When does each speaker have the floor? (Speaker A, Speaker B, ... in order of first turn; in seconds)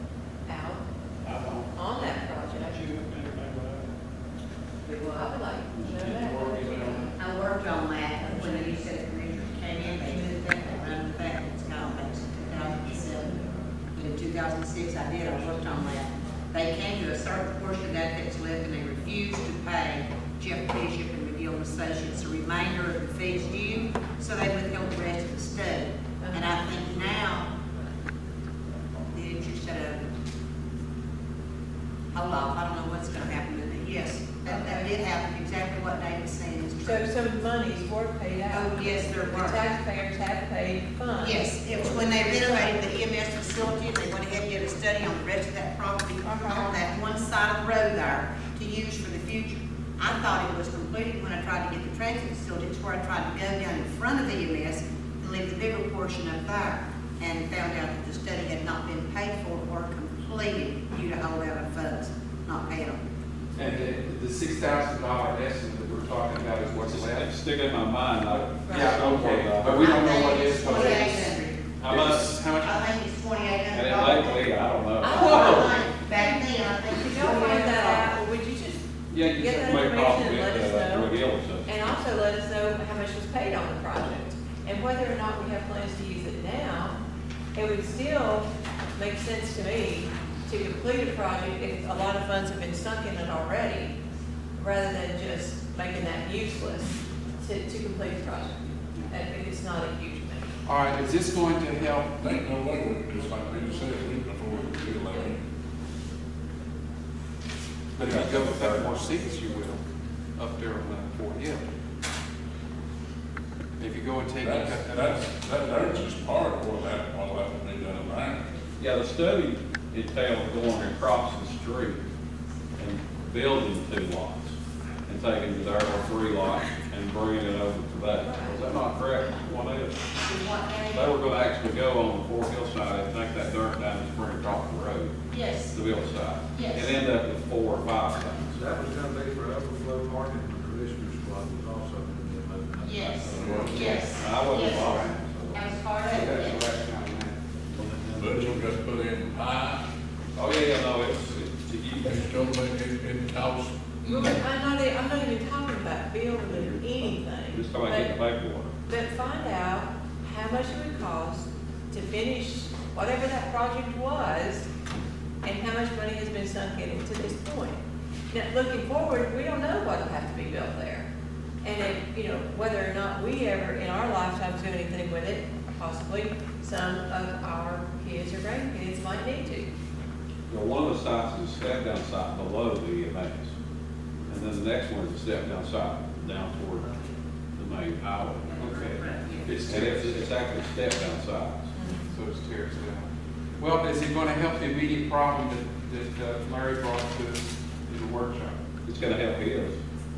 Speaker A: 0.4-0.8, 1.7-2.9, 5.1-7.2, 26.2-26.5, 34.5-34.9, 36.8-42.8, 46.2-46.8, 68.7-68.9, 70.6-71.3, 75.0-81.1, 81.7-87.0, 87.5-94.0, 94.5-100.5, 128.2-128.6, 154.0-158.1, 158.8-164.7, 165.4-171.1, 171.6-179.7, 191.7-192.1
Speaker B: 1.2-1.7, 5.7-7.0, 66.9-70.0, 71.8-72.3, 73.7-75.8, 79.1-81.7, 108.0-109.0, 118.8-122.0, 122.8-130.0, 130.9-135.2, 135.7-138.6, 143.3-145.7, 147.8-148.2, 150.3-152.2, 156.4-158.7, 180.5-183.5, 184.3-186.9, 187.5-188.4, 189.7-191.7, 198.8-199.8
Speaker C: 4.8-5.3, 7.2-13.4, 13.9-27.5, 29.1-30.0, 32.1-37.1, 38.5-39.6, 41.2-63.0, 69.8-71.6, 72.6-78.1, 130.2-131.1, 135.3-135.8, 136.5-137.0, 142.8-146.6, 186.8-187.1, 188.4-189.8
Speaker D: 63.5-67.3, 68.3-72.9, 75.2-75.7, 100.6-102.2, 108.0-109.8, 110.4-111.6, 113.8-115.1, 144.7-145.1, 146.1-147.4, 188.6-190.2, 192.1-193.1, 193.6-198.6
Speaker E: 102.2-105.4, 114.4-118.5, 143.2-144.0, 148.2-149.8, 152.0-154.3
Speaker F: 138.5-143.9, 147.8-148.6